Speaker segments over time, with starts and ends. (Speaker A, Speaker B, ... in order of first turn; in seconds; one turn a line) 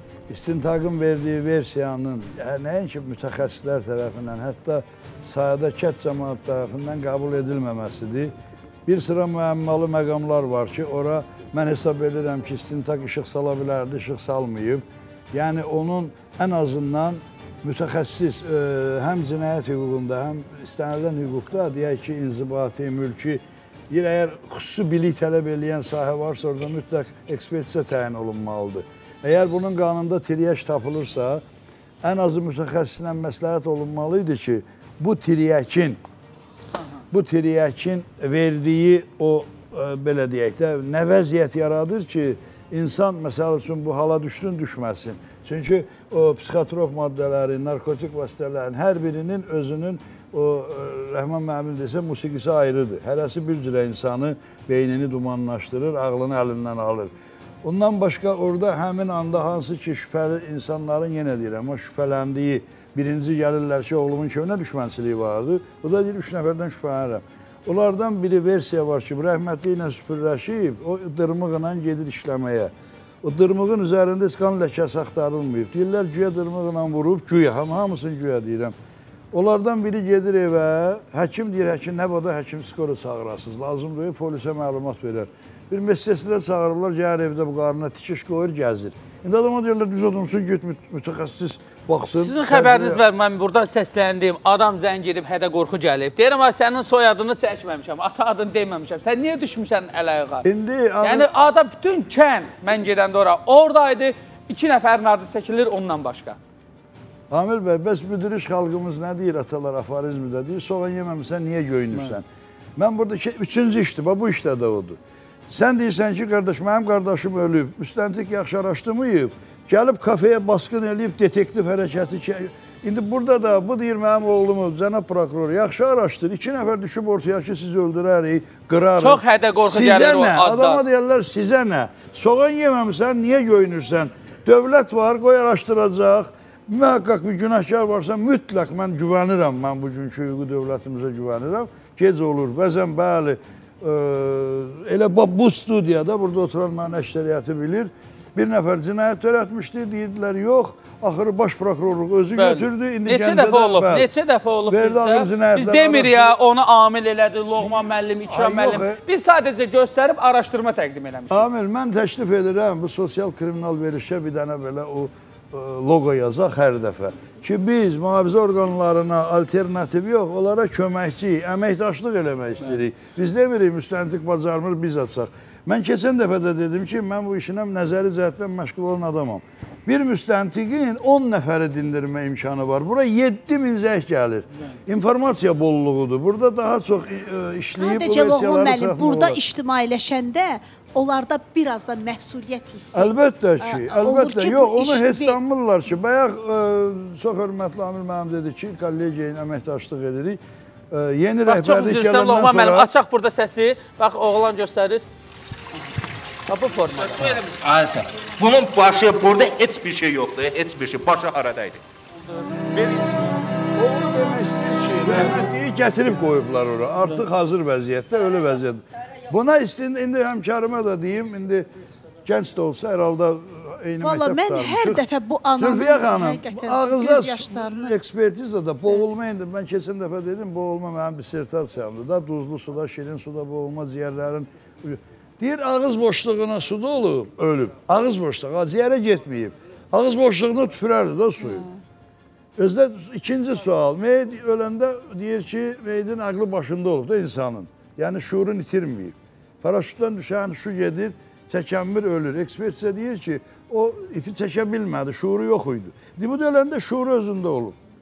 Speaker A: 0.3-8.3
Speaker A: 8.9-31.4
Speaker A: 32.0-36.0
Speaker A: 37.1-57.1
Speaker A: 57.6-78.8
Speaker A: 79.3-93.0
Speaker B: 92.2-100.5
Speaker A: 100.4-101.3
Speaker B: 101.0-106.4
Speaker A: 107.3-112.3
Speaker A: 112.8-154.1
Speaker B: 129.0-130.8
Speaker B: 152.4-161.4
Speaker A: 154.7-156.4
Speaker A: 157.6-159.0
Speaker A: 161.3-189.4
Speaker C: 187.8-195.4
Speaker A: 192.9-200.4
Speaker A: 200.9-202.9
Speaker B: 201.5-205.0
Speaker B: 206.5-207.4
Speaker D: 207.0-211.8
Speaker D: 212.7-213.2
Speaker A: 213.8-221.7
Speaker A: 222.2-225.0
Speaker C: 224.0-227.9
Speaker A: 225.6-241.7
Speaker C: 241.4-241.7
Speaker A: 242.6-257.8